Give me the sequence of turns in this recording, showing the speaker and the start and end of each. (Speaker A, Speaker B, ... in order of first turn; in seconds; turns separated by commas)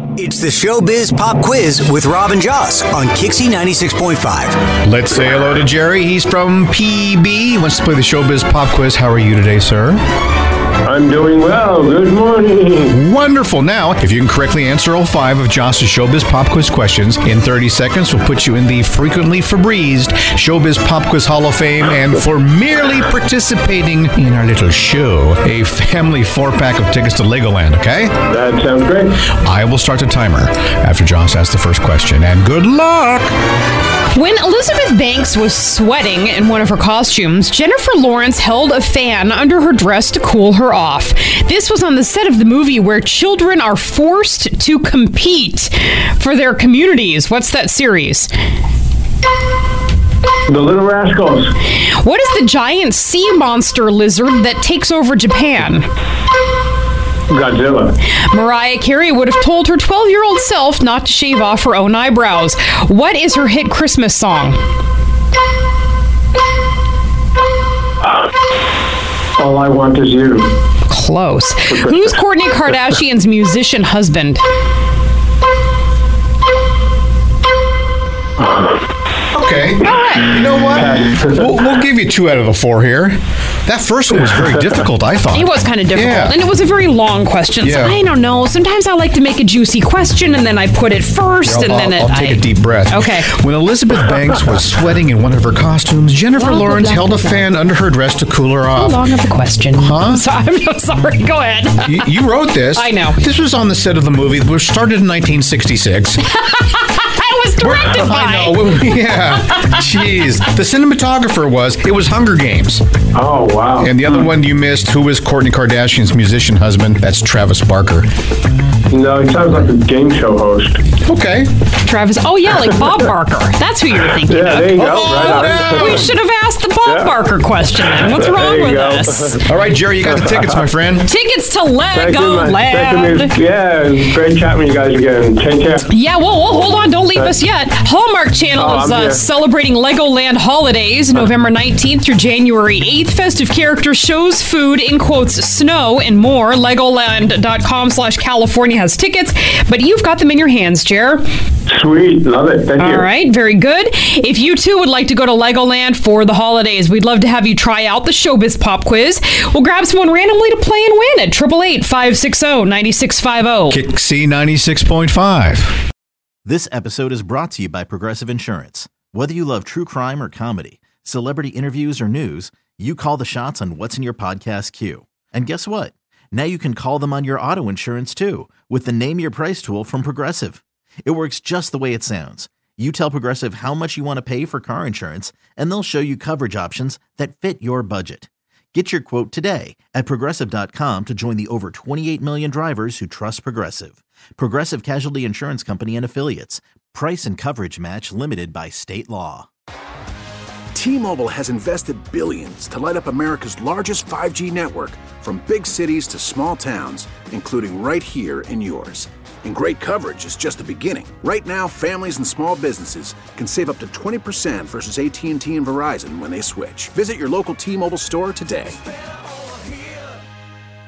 Speaker A: 0.1-4.7, Speaker B: 4.8-10.0, Speaker C: 10.8-12.9, Speaker B: 12.9-28.1, Speaker C: 28.3-29.1, Speaker B: 29.4-33.3, Speaker D: 34.1-48.3, Speaker C: 50.5-51.5, Speaker D: 51.7-55.9, Speaker C: 57.3-58.0, Speaker D: 58.3-64.6, Speaker C: 69.4-70.5, Speaker D: 70.9-74.4, Speaker C: 78.4-78.7, Speaker B: 79.3-86.4, Speaker D: 79.8-80.3, Speaker C: 80.8-81.3, Speaker D: 85.3-93.3, Speaker B: 87.6-88.0, Speaker B: 91.4-99.0, Speaker D: 96.3-97.5, Speaker D: 98.7-102.1, Speaker B: 99.8-100.2, Speaker B: 101.8-106.2, Speaker D: 102.7-103.2, Speaker D: 106.3-108.8, Speaker B: 107.6-112.8, Speaker C: 113.1-114.0, Speaker B: 113.8-118.1, Speaker C: 118.9-120.8, Speaker B: 121.0-121.5, Speaker D: 121.8-129.4, Speaker C: 124.2-126.1, Speaker B: 124.8-126.1, Speaker C: 126.8-127.2, Speaker C: 127.8-129.4, Speaker B: 129.4-131.1, Speaker D: 131.0-133.3, Speaker C: 131.9-135.9, Speaker D: 135.9-151.2, Speaker C: 138.6-139.2, Speaker C: 151.7-153.1, Speaker D: 152.8-163.8, Speaker B: 163.7-165.8, Speaker E: 166.4-199.5, Speaker F: 200.7-218.8